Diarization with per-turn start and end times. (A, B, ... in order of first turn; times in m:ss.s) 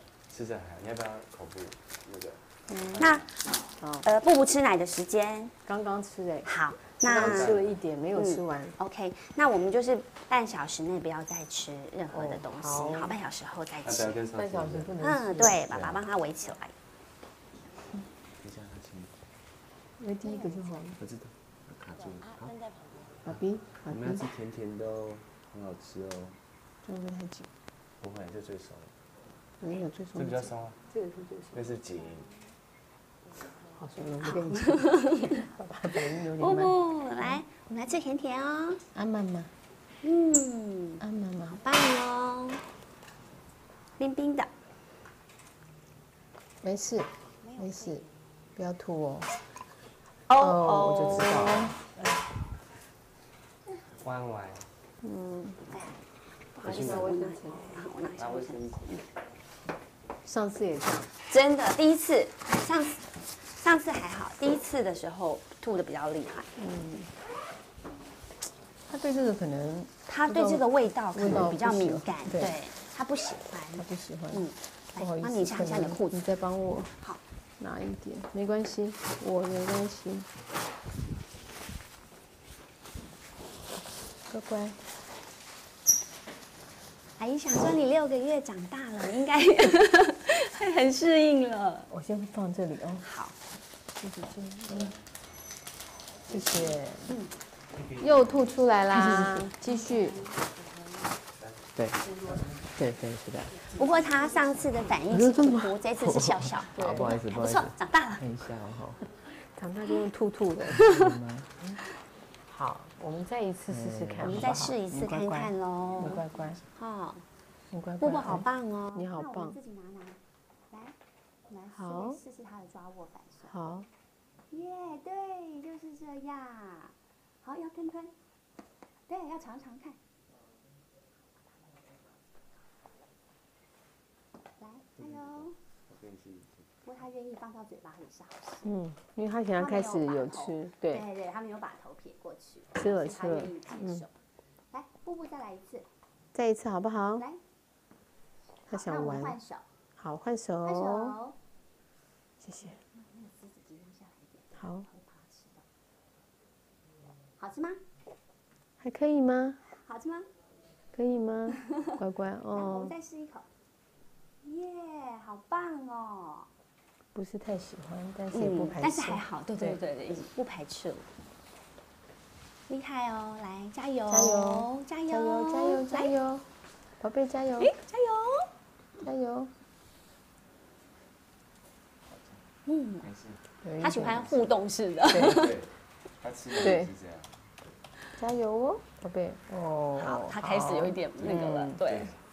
0:00.3-0:02.4 A
0:02.7-0:03.0 B
0:02.9-0:03.2 A
0:03.0-0:03.3 C
0:04.0-0:05.5 C
0:05.6-0:06.5 B
0:06.4-0:07.6 C
0:07.0-0:08.8 B
0:07.1-0:07.7 A
0:08.1-0:14.2 C
0:12.1-0:13.1 B
0:13.8-0:14.9 A
0:14.4-0:15.6 B
0:15.0-0:16.7 C
0:15.6-0:16.0 A
0:18.4-0:19.1 A
0:20.0-0:21.0 B
0:21.0-0:22.5 A
0:23.2-0:24.3 B
0:23.2-0:26.4 A
0:26.8-0:27.5 B
0:28.0-0:28.9 A
0:29.6-0:31.6 B
0:30.2-0:30.8 A
0:31.5-0:32.3 A
0:33.8-0:37.4 B
0:34.4-0:35.4 C
0:36.2-0:38.8 C
0:38.9-0:39.5 B
0:40.0-0:41.0 C
0:41.0-0:41.6 B
0:41.6-0:42.6 C
0:44.0-0:44.5 C
0:46.6-0:48.0 B
0:47.4-0:48.0 C
0:48.6-0:49.3 B
0:50.3-0:51.7 C
0:50.4-0:51.8 B
0:54.0-0:54.7 A
0:55.0-0:55.6 B
0:55.7-0:56.0 C
0:56.5-0:59.0 C
0:56.6-0:57.8 B
0:56.6-0:57.1 A
0:58.2-0:58.8 A
1:00.2-1:01.1 B
1:01.3-1:06.5 C
1:06.6-1:07.1 B
1:08.9-1:12.6 B
1:10.1-1:16.2 C
1:13.7-1:14.4 B
1:15.0-1:16.9 B
1:17.6-1:20.3 B
1:24.3-1:24.8 B
1:27.2-1:31.9 C
1:31.9-1:33.0 B
1:33.0-1:33.3 C
1:34.0-1:34.9 B
1:34.7-1:34.9 A
1:36.3-1:37.2 B
1:36.3-1:36.6 A
1:37.7-1:38.5 A
1:38.0-1:40.2 B
1:39.0-1:40.9 C
1:41.8-1:42.0 D
1:42.6-1:43.6 D
1:43.6-1:48.3 C
1:45.1-1:49.0 D
1:46.8-1:47.1 B
1:49.4-1:50.8 B
1:50.7-1:51.2 C
1:50.7-1:51.5 D
1:52.5-1:56.6 B
1:53.7-1:54.5 D
1:54.2-1:57.2 C
1:57.7-1:59.6 B
1:58.0-2:00.2 C
2:00.7-2:01.0 C
2:01.5-2:03.7 C
2:01.7-2:02.2 B
2:03.4-2:03.9 B
2:04.5-2:08.1 C
2:09.1-2:10.0 C
2:14.6-2:15.6 C
2:15.0-2:16.7 A
2:16.8-2:18.7 C
2:18.6-2:21.0 B
2:19.6-2:24.1 C
2:22.7-2:24.0 B
2:24.7-2:25.9 C
2:26.3-2:27.2 B
2:28.7-2:29.4 B
2:28.7-2:29.6 C
2:30.0-2:31.2 B
2:30.6-2:31.4 C
2:32.4-2:32.8 B
2:32.9-2:35.6 C
2:34.6-2:34.9 B
2:37.4-2:37.8 C
2:38.8-2:39.6 B
2:39.7-2:40.3 C
2:40.9-2:42.9 B
2:42.5-2:43.5 C
2:44.4-2:46.5 C
2:47.1-2:49.8 B
2:48.3-2:51.0 C
2:52.7-2:56.1 C
2:54.1-2:56.4 B
2:57.0-2:57.7 B
2:57.6-2:58.5 C
2:59.0-2:59.5 B
3:02.6-3:03.1 C
3:03.0-3:03.4 A
3:03.6-3:04.3 B
3:03.8-3:05.6 C
3:05.1-3:05.5 B
3:05.2-3:05.7 A
3:06.2-3:07.3 A
3:06.6-3:06.9 B
3:08.2-3:11.8 B
3:10.0-3:12.1 C
3:11.8-3:12.2 A